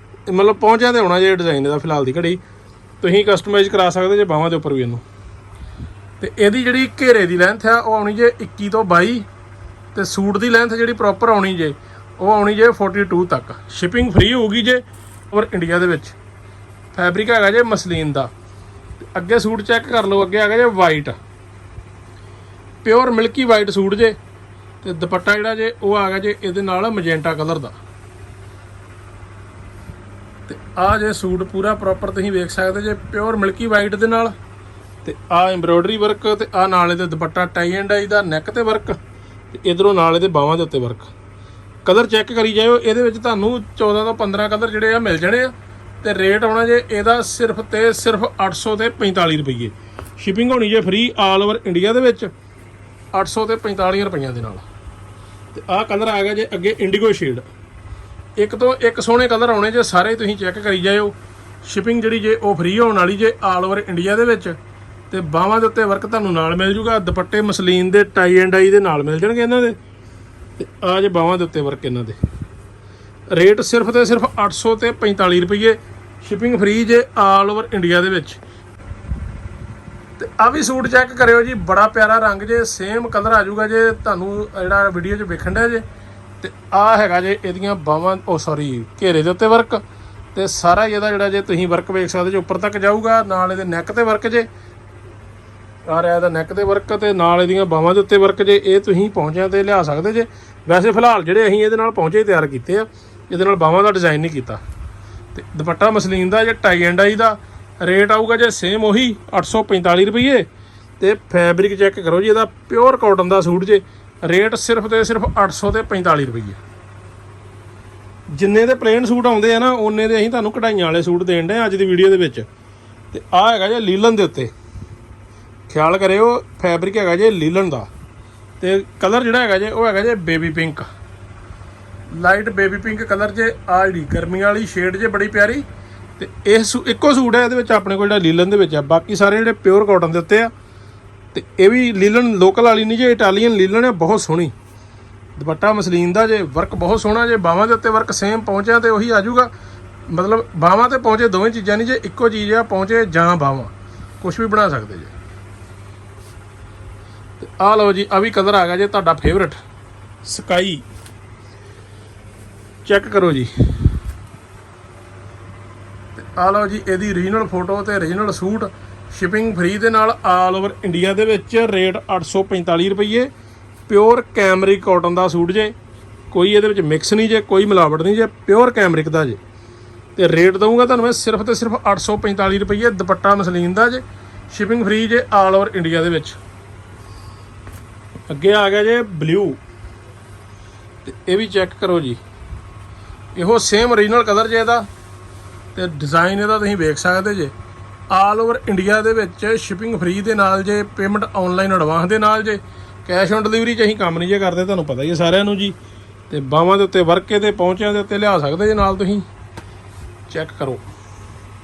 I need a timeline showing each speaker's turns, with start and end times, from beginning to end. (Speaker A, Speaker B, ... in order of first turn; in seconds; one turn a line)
Speaker A: 0.3-2.4
Speaker A: 3.0-5.0
Speaker A: 6.2-9.3
Speaker A: 9.9-16.2
Speaker A: 16.9-18.3
Speaker A: 19.0-21.2
Speaker A: 22.8-24.1
Speaker A: 24.8-27.8
Speaker A: 30.5-34.3
Speaker A: 35.0-39.0
Speaker A: 39.5-41.1
Speaker A: 41.8-52.3
Speaker A: 53.1-54.6
Speaker A: 55.5-57.5
Speaker A: 58.4-64.6
Speaker A: 65.1-69.8
Speaker A: 70.6-72.2
Speaker A: 73.3-78.4
Speaker A: 80.2-85.8
Speaker A: 86.4-89.8
Speaker A: 90.3-94.5
Speaker A: 95.9-104.6
Speaker A: 105.3-110.5
Speaker A: 111.0-116.6
Speaker A: 118.3-122.5
Speaker A: 123.1-124.5
Speaker A: 125.7-127.9
Speaker A: 128.6-130.9
Speaker A: 132.1-135.6
Speaker A: 136.2-140.5
Speaker A: 141.3-144.5
Speaker A: 145.3-149.5
Speaker A: 150.1-155.1
Speaker A: 157.4-159.6
Speaker A: 160.2-160.8
Speaker A: 162.8-163.5
Speaker A: 166.2-173.3
Speaker A: 173.9-175.7
Speaker A: 176.3-179.4
Speaker A: 180.2-186.4
Speaker A: 188.3-189.6
Speaker A: 191.0-192.2
Speaker A: 193.3-194.9
Speaker A: 195.7-197.5
Speaker A: 198.1-205.8
Speaker A: 206.3-209.2
Speaker A: 210.3-210.8